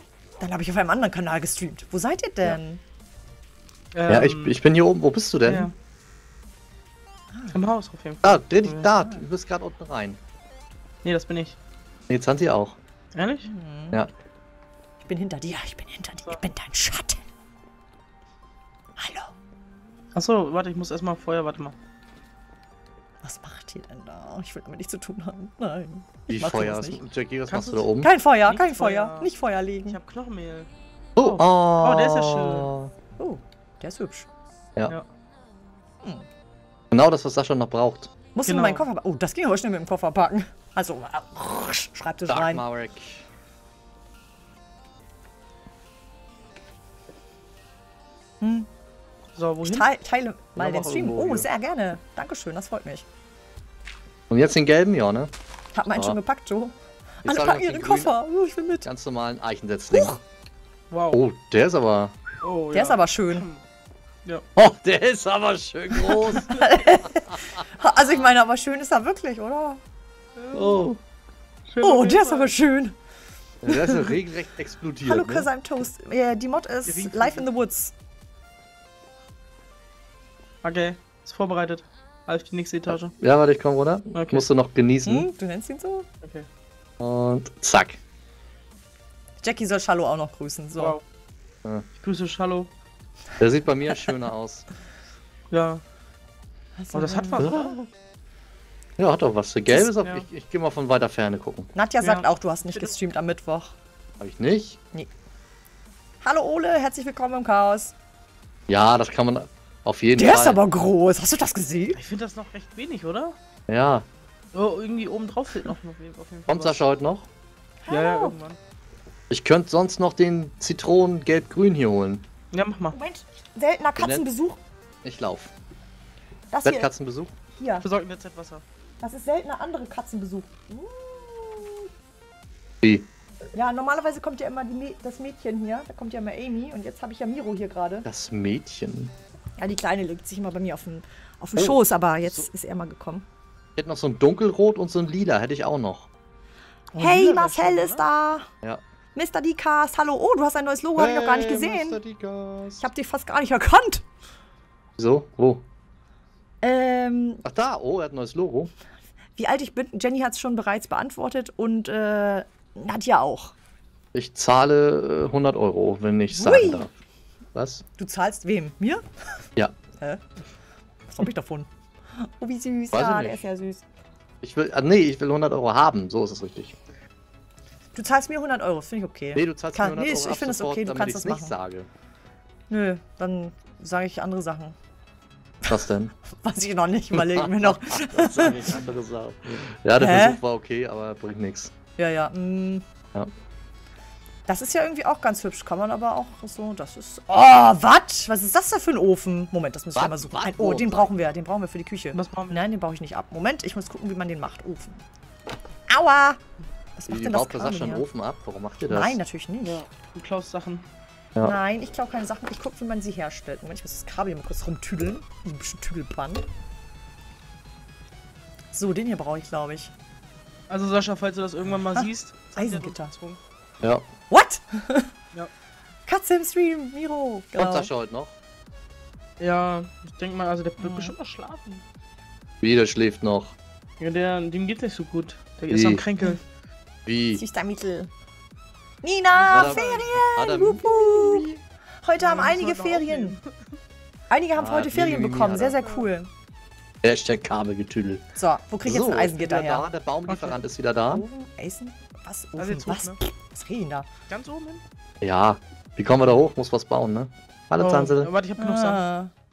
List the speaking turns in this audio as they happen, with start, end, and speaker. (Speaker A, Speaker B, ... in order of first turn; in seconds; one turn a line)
Speaker A: 0.4-2.8
Speaker B: 3.9-4.6
Speaker C: 4.1-5.7
Speaker B: 5.4-5.7
Speaker B: 7.5-8.9
Speaker C: 8.2-10.2
Speaker A: 8.9-9.2
Speaker B: 11.0-11.6
Speaker C: 12.1-12.8
Speaker B: 13.1-13.5
Speaker A: 13.4-14.0
Speaker A: 15.1-17.2
Speaker A: 19.0-19.3
Speaker B: 20.1-21.8
Speaker A: 23.2-27.0
Speaker C: 26.3-28.1
Speaker B: 27.5-29.3
Speaker A: 28.0-30.0
Speaker B: 29.9-32.7
Speaker C: 31.2-32.9
Speaker A: 33.2-34.3
Speaker C: 36.9-38.1
Speaker A: 38.3-42.6
Speaker B: 38.5-38.9
Speaker C: 42.3-43.2
Speaker A: 48.4-48.7
Speaker B: 49.3-49.9
Speaker A: 49.6-53.0
Speaker B: 50.6-51.3
Speaker C: 50.6-51.4
Speaker C: 54.3-55.3
Speaker A: 55.7-58.9
Speaker C: 57.2-58.2
Speaker C: 58.8-60.2
Speaker A: 59.9-60.2
Speaker B: 60.9-61.2
Speaker C: 61.1-62.2
Speaker B: 62.4-63.6
Speaker A: 62.7-63.5
Speaker C: 64.5-66.5
Speaker A: 65.9-69.8
Speaker B: 70.3-70.9
Speaker C: 70.5-71.0
Speaker B: 71.7-72.5
Speaker A: 71.8-73.0
Speaker C: 73.6-75.5
Speaker B: 73.7-74.1
Speaker A: 75.0-77.9
Speaker B: 76.9-77.5
Speaker B: 80.6-83.1
Speaker C: 83.2-85.3
Speaker B: 84.1-84.5
Speaker A: 85.0-86.1
Speaker B: 86.2-86.5
Speaker C: 87.0-88.0
Speaker A: 89.4-91.0
Speaker B: 92.0-92.7
Speaker C: 93.4-94.7
Speaker B: 95.5-95.8
Speaker A: 96.8-97.8
Speaker B: 96.9-97.8
Speaker C: 97.4-97.7
Speaker C: 99.0-101.7
Speaker B: 100.0-100.2
Speaker A: 101.7-103.7
Speaker B: 102.0-102.9
Speaker C: 104.2-104.8
Speaker A: 106.2-107.9
Speaker C: 108.7-110.6
Speaker A: 110.2-112.0
Speaker B: 111.9-113.3
Speaker C: 113.7-114.0
Speaker B: 114.5-116.8
Speaker C: 116.5-117.3
Speaker A: 117.8-118.4
Speaker B: 117.9-118.6
Speaker C: 119.3-122.2
Speaker B: 122.5-123.0
Speaker A: 122.9-124.6
Speaker C: 124.0-124.3
Speaker C: 125.0-125.5
Speaker A: 126.5-126.9
Speaker C: 126.6-127.3
Speaker A: 127.6-127.8
Speaker B: 127.8-128.6
Speaker A: 129.0-131.9
Speaker A: 133.5-138.1
Speaker C: 138.0-139.1
Speaker A: 139.6-143.2
Speaker C: 143.8-146.1
Speaker B: 146.9-148.0
Speaker A: 147.0-148.5
Speaker A: 149.1-152.0
Speaker C: 151.0-152.9
Speaker A: 152.8-154.0
Speaker C: 155.0-155.6
Speaker A: 156.6-157.4
Speaker C: 157.4-158.7
Speaker A: 159.4-163.5
Speaker C: 164.1-166.9
Speaker A: 166.3-166.9
Speaker C: 167.5-167.8
Speaker A: 168.0-169.0
Speaker A: 170.0-170.2
Speaker A: 171.1-173.8
Speaker C: 172.9-173.4
Speaker C: 174.4-176.8
Speaker A: 177.9-181.6
Speaker C: 179.3-181.9
Speaker A: 182.7-184.7
Speaker C: 185.7-186.1
Speaker A: 186.3-188.8
Speaker C: 187.1-191.7
Speaker A: 190.0-190.4
Speaker A: 192.0-192.8
Speaker A: 194.5-205.0
Speaker C: 199.9-201.1
Speaker B: 202.1-202.7
Speaker A: 205.9-206.4
Speaker A: 207.0-208.0
Speaker C: 207.1-209.2
Speaker A: 208.8-209.8
Speaker B: 209.6-210.8
Speaker A: 211.4-216.4
Speaker A: 218.7-219.9
Speaker B: 220.7-223.4
Speaker A: 221.8-223.1
Speaker A: 224.3-225.1
Speaker A: 226.1-227.9
Speaker C: 227.6-228.3
Speaker B: 229.4-231.8
Speaker A: 230.8-231.1
Speaker C: 232.6-233.5
Speaker B: 234.0-236.4
Speaker C: 235.7-236.0
Speaker C: 237.0-237.4
Speaker A: 237.3-238.1
Speaker A: 239.0-241.5
Speaker B: 239.3-240.2
Speaker C: 239.4-241.5
Speaker A: 242.0-243.3
Speaker B: 242.2-243.8
Speaker A: 244.3-246.3
Speaker C: 244.5-245.8
Speaker C: 247.0-248.2
Speaker A: 248.3-249.9
Speaker C: 248.8-251.2
Speaker B: 250.3-250.6
Speaker A: 251.1-254.1
Speaker B: 252.6-253.2
Speaker B: 254.3-254.8
Speaker C: 255.2-258.3
Speaker B: 257.8-259.1
Speaker A: 258.6-259.3